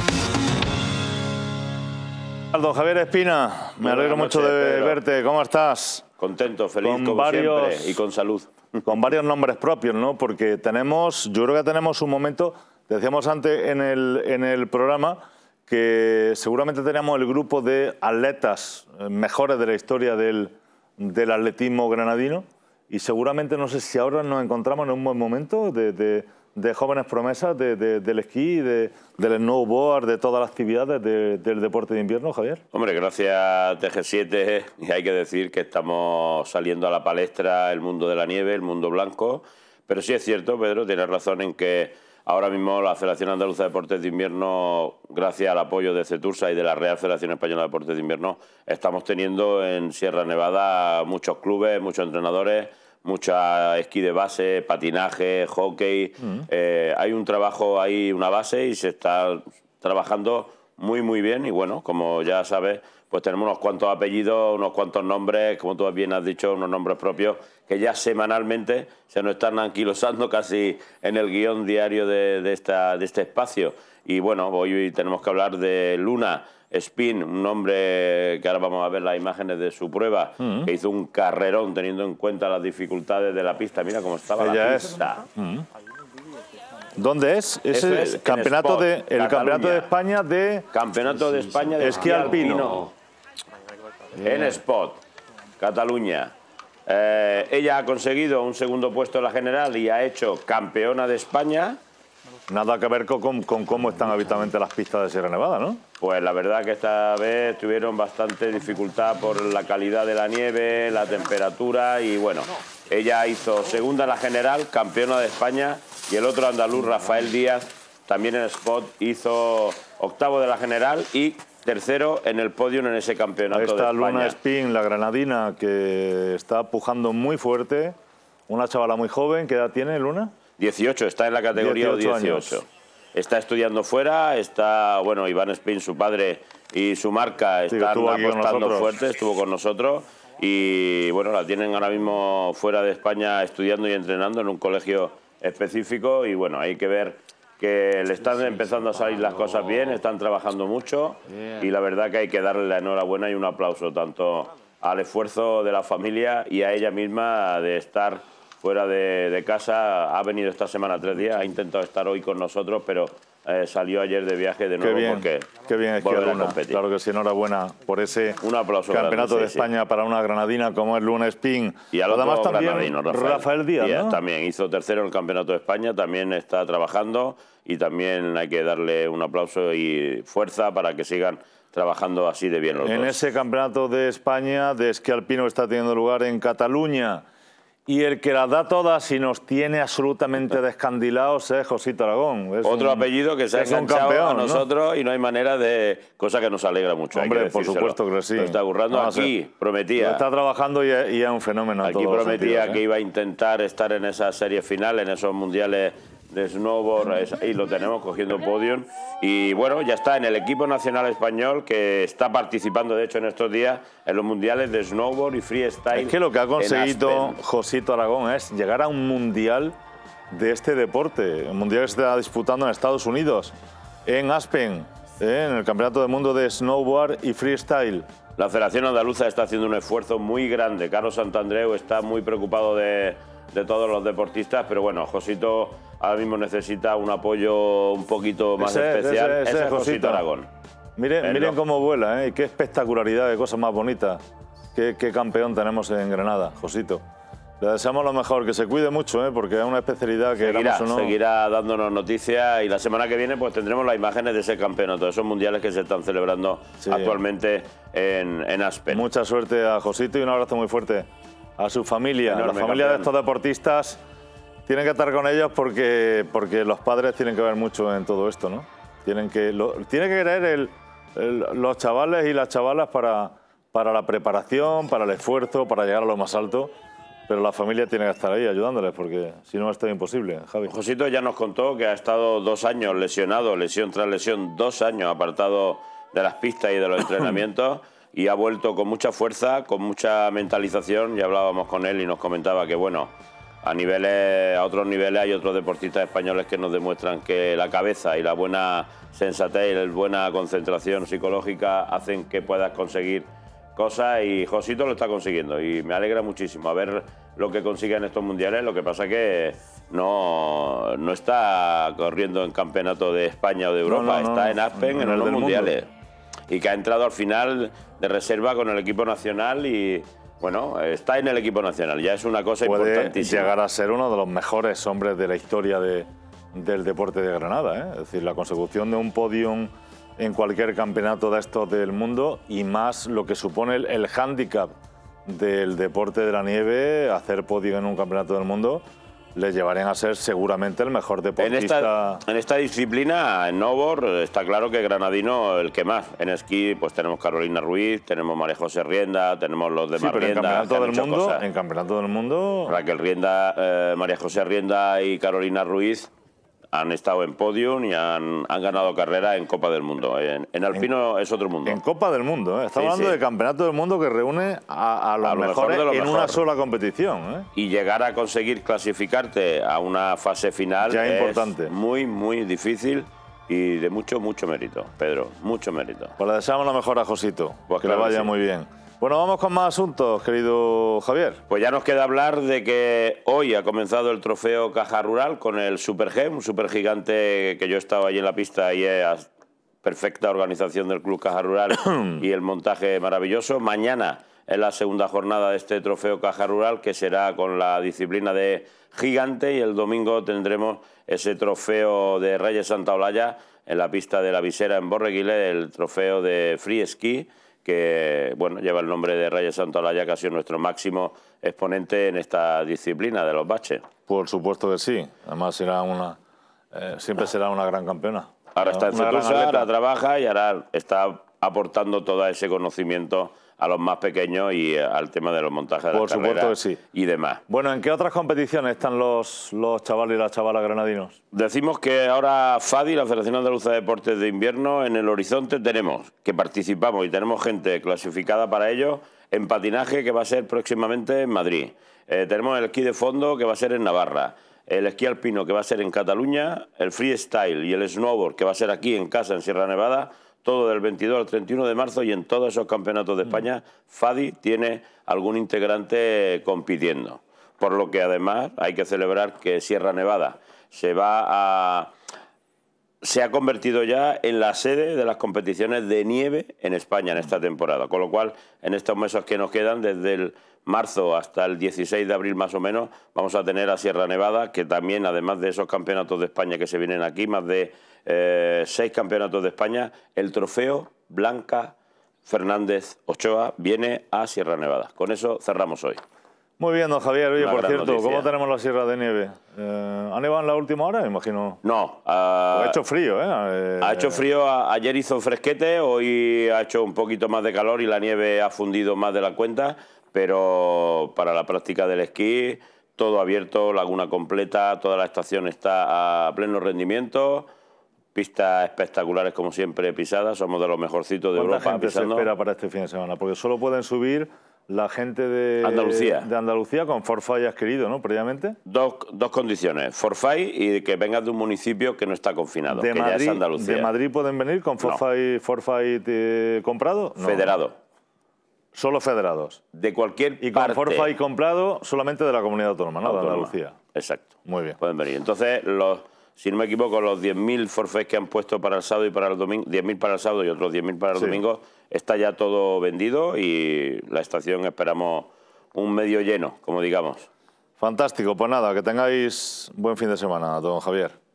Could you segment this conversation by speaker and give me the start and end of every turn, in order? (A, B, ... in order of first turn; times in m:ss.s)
0:02.5-0:06.1 A
0:03.8-0:05.0 B
0:06.2-0:08.9 B
0:06.8-0:08.0 A
0:08.8-0:32.6 A
0:32.7-1:25.2 B
1:20.4-1:20.7 A
1:24.4-1:25.6 A
1:27.0-1:30.7 A
1:27.7-1:29.9 B
1:30.7-1:32.9 B
1:31.8-1:32.8 A
1:34.2-1:35.0 B
1:35.6-1:36.3 B
1:36.9-1:41.8 B
1:42.5-1:45.8 A
1:46.0-2:04.4 B
2:03.5-2:08.0 A
2:08.5-2:10.4 A
2:10.5-2:46.8 B
2:11.5-2:12.6 A
2:17.7-2:18.9 A
2:44.8-2:54.2 A
2:48.4-2:49.7 B
2:51.9-3:03.2 B
3:02.8-3:07.2 A
3:07.9-3:14.6 A
3:12.6-3:20.2 B
3:17.1-3:19.3 A
3:20.0-3:22.8 A
3:21.8-3:37.4 B
3:35.9-3:39.7 A
3:40.3-3:43.5 A
3:44.0-3:48.1 A
3:48.4-4:00.5 B
3:58.6-4:00.2 A
4:01.0-4:04.2 A
4:01.2-4:01.6 B
4:04.7-4:07.0 A
4:07.6-4:11.1 A
4:10.4-4:19.0 B
4:16.8-4:17.2 A
4:18.9-4:24.0 A
4:22.2-4:23.1 B
4:24.7-4:36.7 A
4:37.3-4:40.7 A
4:40.6-4:53.1 B
4:53.6-5:15.9 B
5:13.8-5:15.7 A
5:16.5-5:23.5 B
5:22.6-5:34.7 A
5:35.2-5:38.8 A
5:39.3-5:42.2 A
5:41.4-5:51.4 B
5:50.0-5:52.8 A
5:52.7-5:56.1 B
5:56.7-6:01.8 B
6:01.6-6:07.5 A
6:02.7-6:03.2 B
6:05.2-6:06.4 B
6:07.5-6:16.1 B
6:10.8-6:11.7 A
6:16.2-6:21.4 A
6:17.7-6:18.3 B
6:21.5-6:29.3 B
6:29.8-6:53.8 B
6:31.8-6:32.2 A
6:54.1-6:56.2 A
6:56.7-6:59.7 A
6:58.5-7:07.4 B
7:05.9-7:06.8 A
7:07.5-7:11.2 A
7:11.3-7:41.9 B
7:43.0-8:01.7 B
8:02.2-8:06.0 B
8:06.6-8:11.6 A
8:07.4-8:08.3 B
8:11.6-8:12.8 B
8:12.5-8:14.2 A
8:13.8-8:27.5 B
8:28.1-8:32.3 B
8:31.4-8:38.6 A
8:35.6-8:36.3 B
8:38.7-8:43.9 B
8:42.7-8:47.6 A
8:47.2-8:47.8 B
8:48.7-8:49.6 A
8:49.7-8:51.1 B
8:50.4-8:53.8 A
8:53.0-8:54.3 B
8:54.4-8:54.8 A
8:54.8-9:07.3 B
9:07.8-9:11.1 A